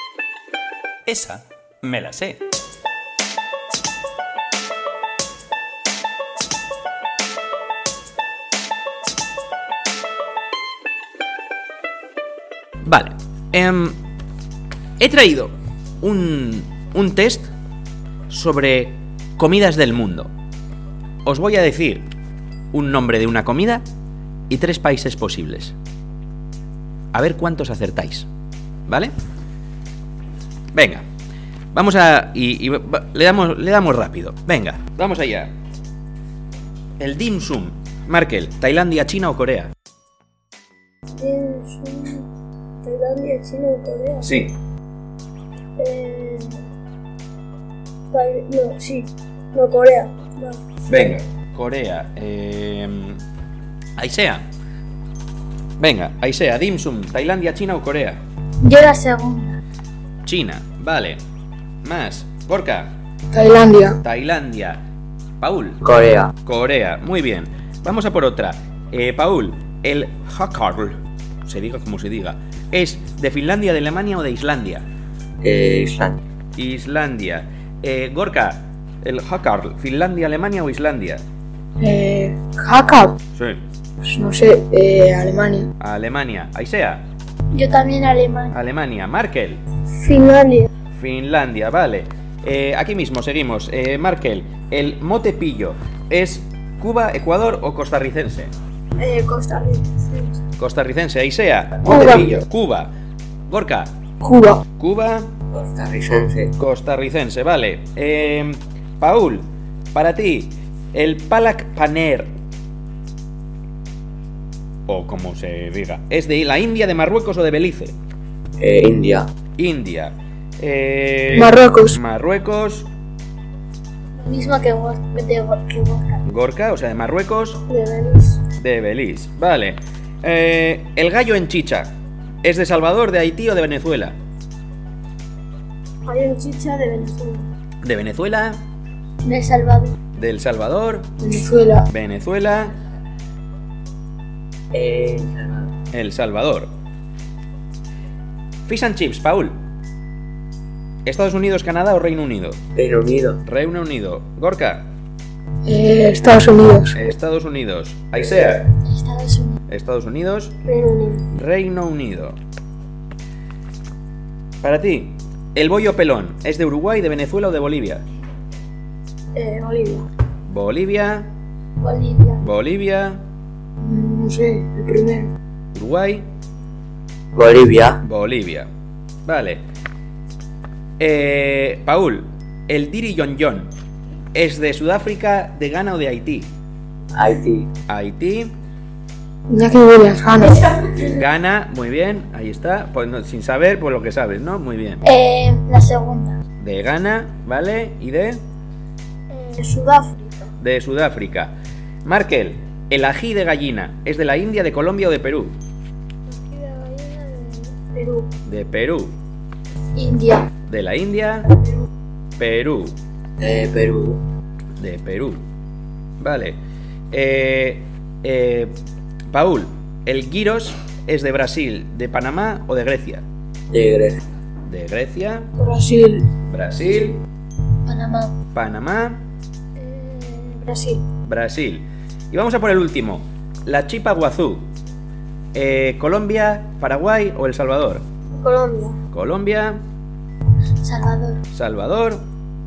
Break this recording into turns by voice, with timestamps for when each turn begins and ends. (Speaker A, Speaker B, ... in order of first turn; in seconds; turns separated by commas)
Speaker A: 1.0-2.4, Speaker A: 12.8-14.0, Speaker A: 15.0-17.5, Speaker A: 18.3-20.3, Speaker A: 21.2-22.1, Speaker A: 22.7-23.8, Speaker A: 24.5-25.7, Speaker A: 27.1-28.3, Speaker A: 30.7-31.0, Speaker A: 31.7-35.5, Speaker A: 37.0-39.7, Speaker B: 41.1-42.3, Speaker B: 42.8-44.3, Speaker A: 44.2-44.5, Speaker B: 45.8-46.7, Speaker B: 48.1-50.6, Speaker A: 50.9-53.2, Speaker A: 54.0-54.4, Speaker A: 55.8-58.2, Speaker C: 58.6-59.6, Speaker A: 60.2-61.2, Speaker A: 61.8-62.9, Speaker D: 63.3-64.0, Speaker A: 64.0-64.8, Speaker A: 65.4-65.8, Speaker E: 65.8-66.3, Speaker A: 66.4-74.8, Speaker E: 75.4-76.2, Speaker A: 76.5-81.2, Speaker D: 81.8-83.2, Speaker A: 83.3-83.6, Speaker D: 84.0-85.7, Speaker A: 85.8-87.0, Speaker C: 87.5-88.5, Speaker A: 88.5-89.6, Speaker B: 89.9-90.7, Speaker A: 90.9-98.5, Speaker B: 99.0-100.4, Speaker A: 100.6-102.9, Speaker D: 101.9-102.3, Speaker A: 103.5-103.9, Speaker D: 104.2-104.6, Speaker A: 104.8-105.3, Speaker E: 105.5-106.5, Speaker A: 106.6-112.3, Speaker A: 114.9-118.0, Speaker E: 118.6-119.3, Speaker A: 119.6-122.9, Speaker D: 121.3-122.0, Speaker C: 124.2-126.2, Speaker A: 126.2-127.6, Speaker B: 127.7-128.4, Speaker A: 128.6-134.2, Speaker B: 136.0-137.5, Speaker A: 137.8-138.6, Speaker C: 139.2-139.9, Speaker A: 140.1-141.1, Speaker D: 141.2-141.9, Speaker A: 141.9-142.8, Speaker E: 144.7-145.7, Speaker A: 145.9-146.7, Speaker A: 148.7-149.6, Speaker A: 151.0-152.6, Speaker E: 152.7-153.4, Speaker A: 153.4-154.9, Speaker D: 155.7-157.0, Speaker A: 156.9-158.7, Speaker C: 158.8-159.6, Speaker A: 159.7-160.6, Speaker B: 160.7-161.3, Speaker A: 161.3-162.4, Speaker A: 164.6-168.0, Speaker B: 169.3-170.1, Speaker A: 170.5-171.3, Speaker C: 171.8-172.4, Speaker A: 172.4-173.2, Speaker D: 173.8-175.3, Speaker A: 175.7-176.2, Speaker E: 177.3-178.0, Speaker A: 178.0-178.7, Speaker A: 179.2-179.6, Speaker A: 181.0-183.7, Speaker A: 184.3-186.5, Speaker E: 187.1-187.7, Speaker A: 187.9-188.5, Speaker D: 189.5-190.9, Speaker A: 191.0-195.0, Speaker C: 195.0-196.4, Speaker A: 196.6-198.4, Speaker B: 199.3-200.4, Speaker A: 200.6-201.5, Speaker A: 202.0-205.6, Speaker B: 206.3-208.3, Speaker A: 208.4-209.1, Speaker C: 209.9-210.5, Speaker A: 210.7-211.5, Speaker A: 212.4-212.9, Speaker E: 213.4-214.2, Speaker A: 214.8-215.4, Speaker A: 216.2-216.6, Speaker A: 217.1-218.7, Speaker A: 219.3-223.2, Speaker E: 223.7-224.2, Speaker A: 224.6-225.5, Speaker D: 225.6-226.3, Speaker A: 226.4-227.2, Speaker C: 227.8-228.3, Speaker A: 228.5-229.2, Speaker B: 229.8-231.0, Speaker A: 231.2-234.7, Speaker A: 235.5-238.1, Speaker B: 238.3-239.0, Speaker A: 239.1-239.8, Speaker C: 240.8-241.4, Speaker A: 241.5-242.2